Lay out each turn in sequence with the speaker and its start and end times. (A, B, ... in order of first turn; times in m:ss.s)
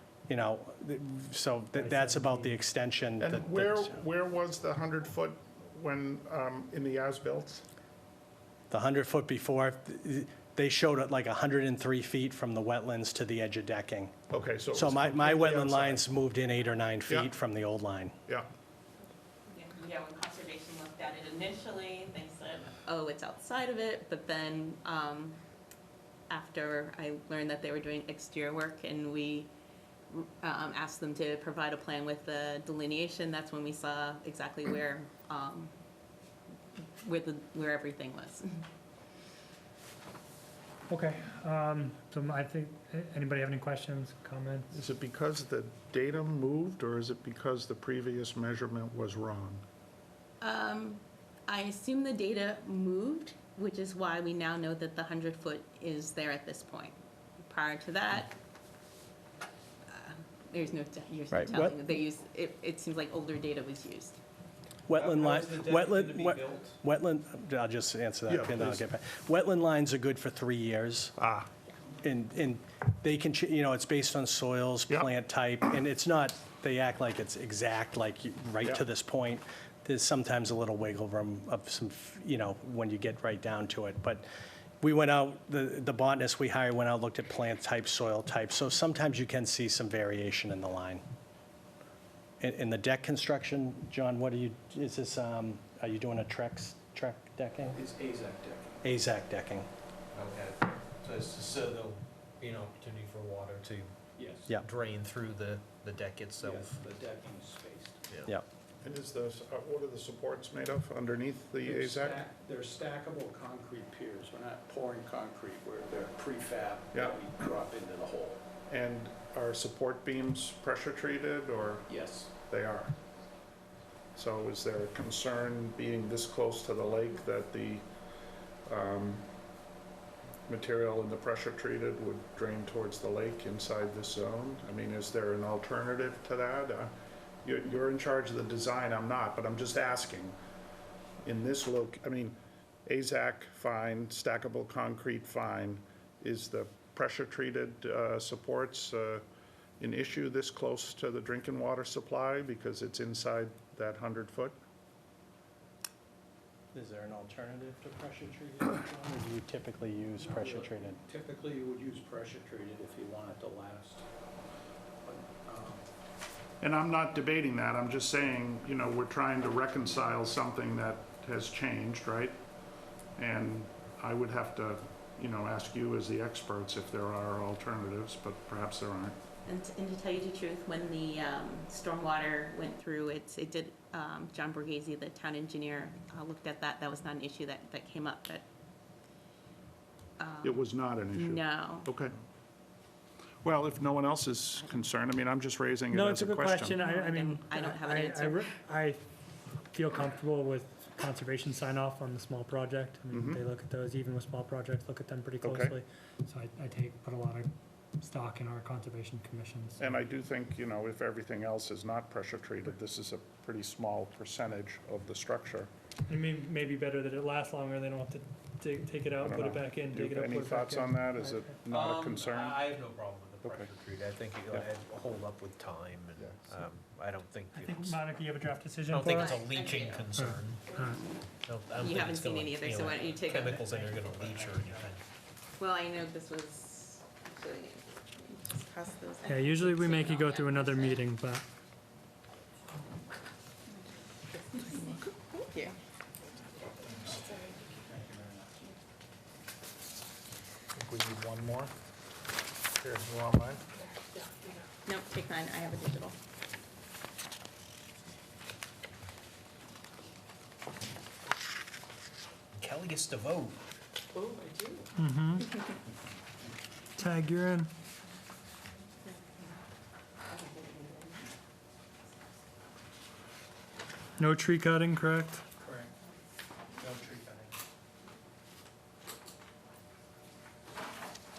0:00.3-0:04.0 A
0:01.7-0:02.6 B
0:03.2-0:07.6 C
0:08.7-0:14.2 A
0:14.3-0:16.1 C
0:14.7-0:18.2 A
0:19.5-0:25.4 D
0:26.3-0:29.5 D
0:30.1-0:35.7 D
0:36.8-0:38.6 D
0:40.9-0:44.7 B
0:44.7-0:49.6 C
0:50.4-0:58.3 D
0:59.9-1:04.2 D
1:01.3-1:01.8 A
1:04.9-1:11.1 A
1:04.9-1:06.8 E
1:08.3-1:08.8 C
1:11.2-1:11.5 C
1:12.0-1:24.2 A
1:24.8-1:31.0 A
1:32.4-1:37.8 A
1:37.7-1:38.8 F
1:38.8-1:39.7 A
1:40.1-1:44.0 E
1:44.2-1:44.6 F
1:44.5-1:46.8 E
1:46.4-1:48.0 F
1:48.8-1:52.2 C
1:51.6-1:58.4 F
1:56.9-1:57.2 C
1:58.7-2:02.9 C
2:01.9-2:02.3 F
2:04.1-2:07.8 C
2:08.6-2:09.3 C
2:10.5-2:20.4 C
2:21.2-2:29.2 C
2:29.8-2:34.6 C
2:36.7-2:41.0 A
2:40.2-2:44.0 F
2:45.0-2:45.8 F
2:46.6-2:52.4 C
2:53.2-2:59.2 C
2:59.4-3:08.4 D
3:10.2-3:11.9 D
3:10.4-3:12.2 C
3:13.4-3:16.8 C
3:15.9-3:19.0 B
3:16.8-3:18.5 D
3:19.7-3:30.0 B
3:23.1-3:23.4 C
3:25.4-3:25.7 C
3:29.8-3:35.7 C
3:36.1-3:41.6 B
3:39.2-3:42.6 C
3:41.7-3:48.0 E
3:46.2-3:46.4 C
3:47.5-3:49.5 B
3:48.9-3:50.7 E
3:49.0-3:50.1 D
3:50.1-3:51.1 B
3:50.6-3:51.2 D
3:51.4-3:55.0 E
3:51.7-3:53.7 D
3:53.6-3:54.9 B
3:55.6-4:01.0 D
3:59.2-4:01.4 B
4:04.5-4:05.8 D
4:07.9-4:08.4 F
4:10.7-4:11.7 C
4:12.8-4:13.6 C
4:14.8-4:16.2 D
4:22.6-4:23.6 E
4:24.2-4:24.7 D
4:25.0-4:25.5 B
4:27.0-4:27.7 B
4:30.3-4:30.8 D
4:34.2-4:35.4 B